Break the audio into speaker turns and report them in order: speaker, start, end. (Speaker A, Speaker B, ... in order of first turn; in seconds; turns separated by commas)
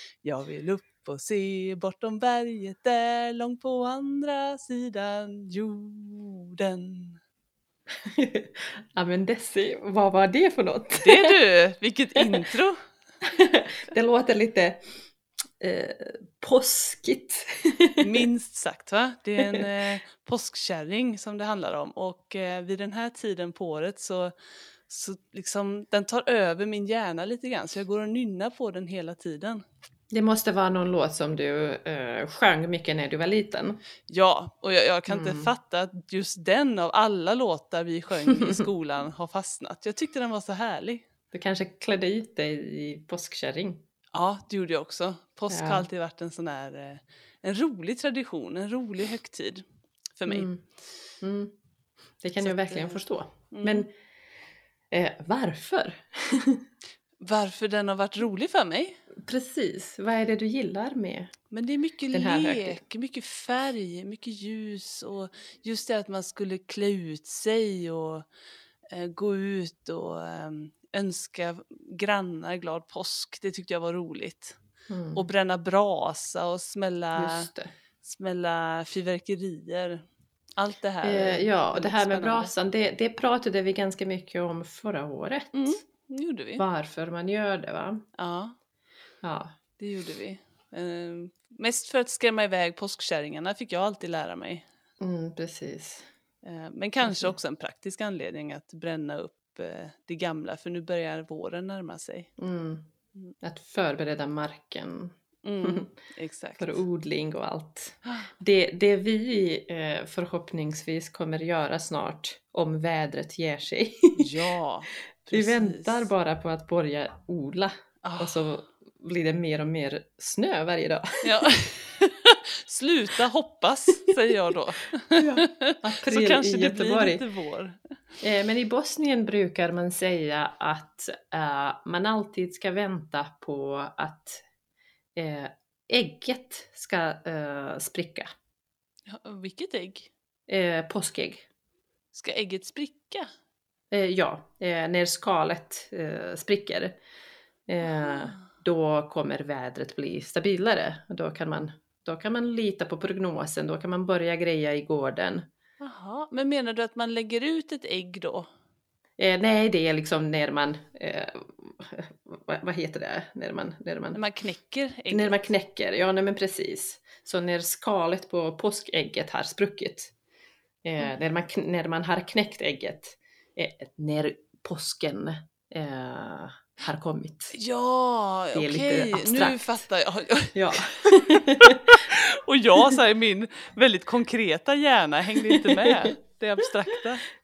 Speaker A: 0.2-7.2, Speaker B: 8.1-11.4, Speaker A: 11.0-12.8, Speaker B: 13.2-14.8, Speaker B: 15.6-18.3, Speaker A: 18.0-24.3, Speaker A: 24.9-29.6, Speaker B: 30.1-33.8, Speaker A: 34.1-41.0, Speaker B: 35.1-35.5, Speaker B: 41.3-43.8, Speaker A: 44.1-49.6, Speaker B: 45.5-45.9, Speaker A: 50.2-50.5, Speaker B: 50.3-50.6, Speaker B: 51.2-51.5, Speaker B: 52.2-53.9, Speaker A: 52.4-53.0, Speaker A: 53.5-53.9, Speaker B: 54.9-56.6, Speaker A: 57.2-59.0, Speaker B: 59.2-61.3, Speaker A: 61.5-68.3, Speaker B: 62.1-62.8, Speaker A: 68.9-74.6, Speaker B: 74.9-75.2, Speaker A: 75.2-77.5, Speaker B: 77.2-77.7, Speaker A: 78.0-80.0, Speaker A: 80.6-82.5, Speaker B: 81.0-85.8, Speaker A: 85.5-86.6, Speaker B: 86.6-88.0, Speaker A: 88.2-88.6, Speaker B: 89.2-89.5, Speaker A: 89.8-94.7, Speaker B: 95.0-96.1, Speaker A: 96.4-102.3, Speaker B: 97.0-97.3, Speaker B: 102.4-102.9, Speaker B: 103.4-105.9, Speaker A: 105.4-106.8, Speaker B: 106.6-114.3, Speaker A: 108.0-108.3, Speaker A: 114.2-116.1, Speaker B: 115.3-121.4, Speaker A: 118.0-118.5, Speaker A: 121.2-127.8, Speaker B: 125.2-127.2, Speaker B: 128.2-134.4, Speaker B: 135.2-138.3, Speaker A: 139.1-140.1, Speaker B: 140.5-141.4, Speaker A: 142.1-143.3, Speaker B: 143.9-147.0, Speaker B: 147.7-155.5, Speaker A: 147.9-148.4, Speaker A: 155.8-158.5, Speaker B: 159.2-164.2, Speaker A: 164.1-165.4, Speaker B: 165.1-170.1, Speaker B: 170.8-177.6, Speaker A: 177.5-187.3, Speaker B: 178.6-179.8, Speaker B: 180.5-182.0, Speaker B: 185.4-186.1